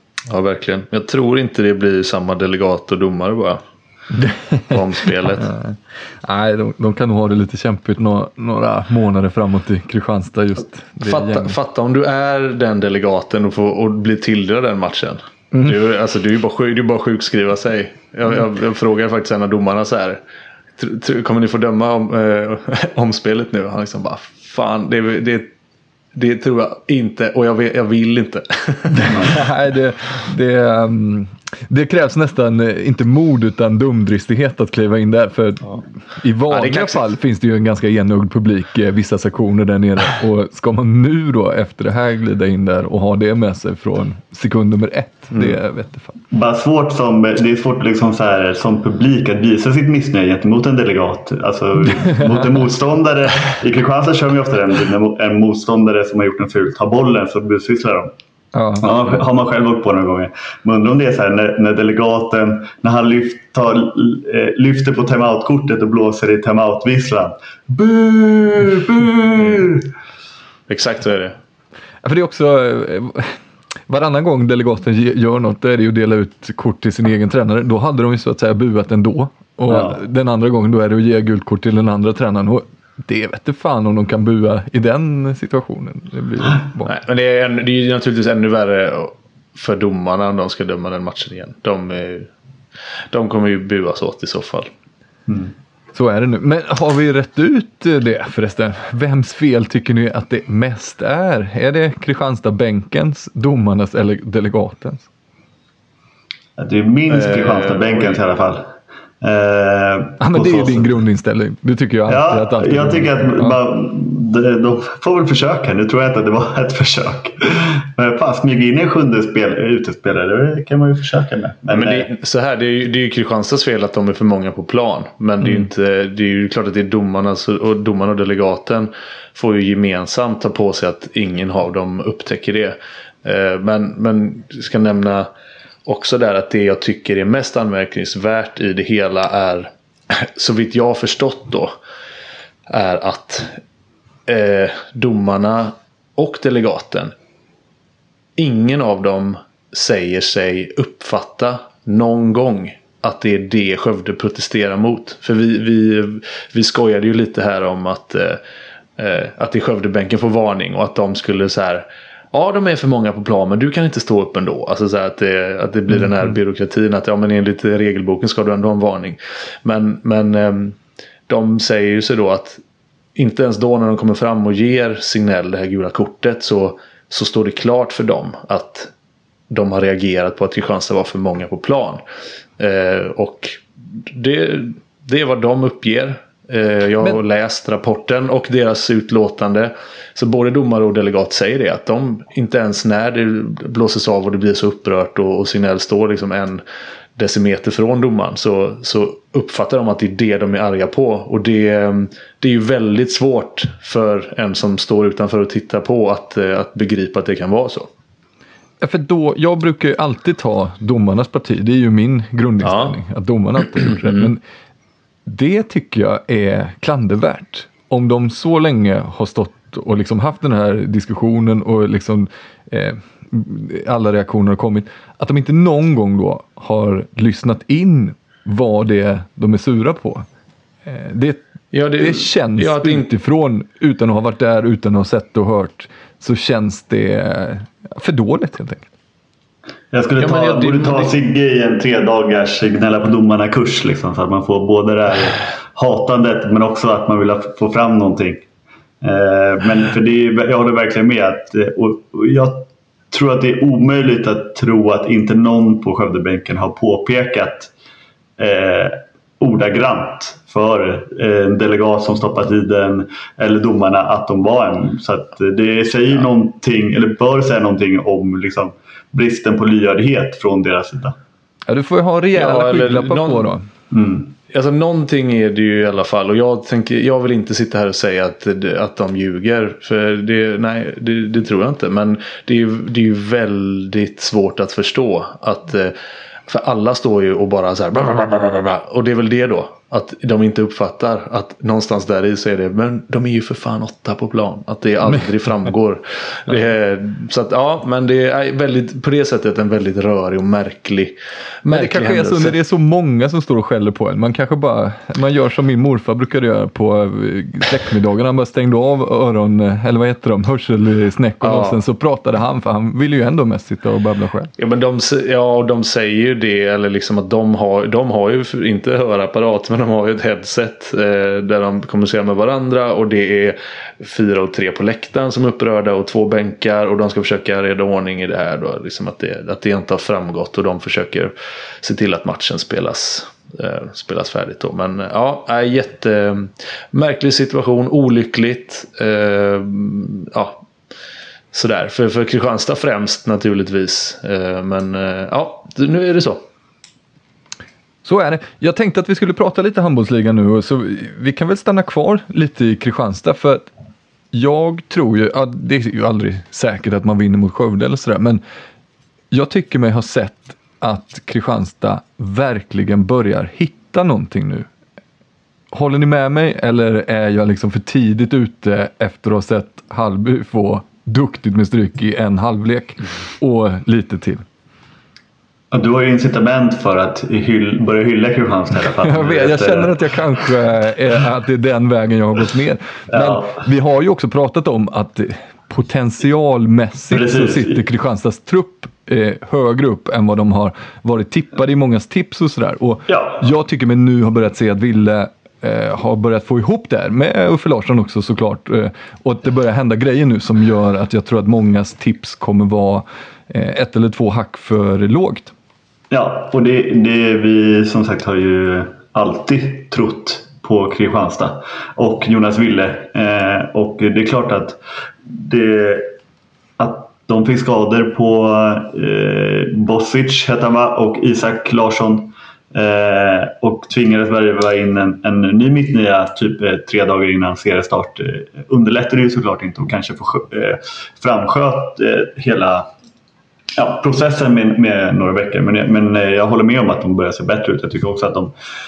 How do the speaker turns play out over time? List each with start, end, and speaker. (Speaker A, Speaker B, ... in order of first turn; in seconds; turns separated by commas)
Speaker A: 0.3-3.6, Speaker B: 4.1-4.8, Speaker A: 4.7-5.5, Speaker B: 5.3-11.6, Speaker A: 11.0-20.2, Speaker A: 20.8-25.5, Speaker A: 26.1-29.3, Speaker B: 28.9-46.2, Speaker A: 36.5-37.1, Speaker C: 46.3-58.1, Speaker B: 52.0-52.6, Speaker B: 58.5-59.2, Speaker C: 58.8-69.8, Speaker A: 70.7-71.3, Speaker B: 72.0-73.4, Speaker B: 73.9-86.9, Speaker A: 86.8-92.3, Speaker A: 93.1-94.7, Speaker C: 95.3-95.5, Speaker B: 95.9-105.1, Speaker C: 106.6-111.0, Speaker A: 107.1-108.2, Speaker B: 110.2-113.6, Speaker C: 112.1-122.1, Speaker A: 121.7-135.3, Speaker A: 135.8-141.7, Speaker A: 142.7-143.6, Speaker A: 144.3-147.1, Speaker A: 148.4-158.4, Speaker A: 159.0-170.8, Speaker A: 171.3-172.6, Speaker A: 173.2-178.9, Speaker A: 179.5-182.0, Speaker A: 182.6-196.6, Speaker A: 197.2-207.9, Speaker B: 208.8-214.4, Speaker A: 212.6-213.0, Speaker A: 213.8-214.3, Speaker B: 215.2-230.2, Speaker B: 230.8-231.4, Speaker A: 231.7-233.1, Speaker B: 232.0-238.9, Speaker C: 239.9-248.4, Speaker A: 240.2-241.1, Speaker C: 249.0-257.7, Speaker C: 258.4-271.2, Speaker B: 271.7-273.7, Speaker A: 272.3-273.5, Speaker C: 273.9-274.3, Speaker A: 274.5-285.9, Speaker A: 286.5-302.6, Speaker B: 301.7-314.5, Speaker A: 311.4-311.8, Speaker A: 314.6-340.6, Speaker A: 341.5-346.4, Speaker B: 348.0-353.7, Speaker B: 354.3-358.4, Speaker B: 359.3-364.7, Speaker B: 365.7-374.4, Speaker C: 375.7-380.0, Speaker B: 379.0-405.5, Speaker C: 383.1-383.6, Speaker C: 387.1-387.8, Speaker C: 393.1-393.4, Speaker C: 406.1-414.8, Speaker C: 415.3-416.1, Speaker C: 416.8-432.9, Speaker C: 433.8-438.5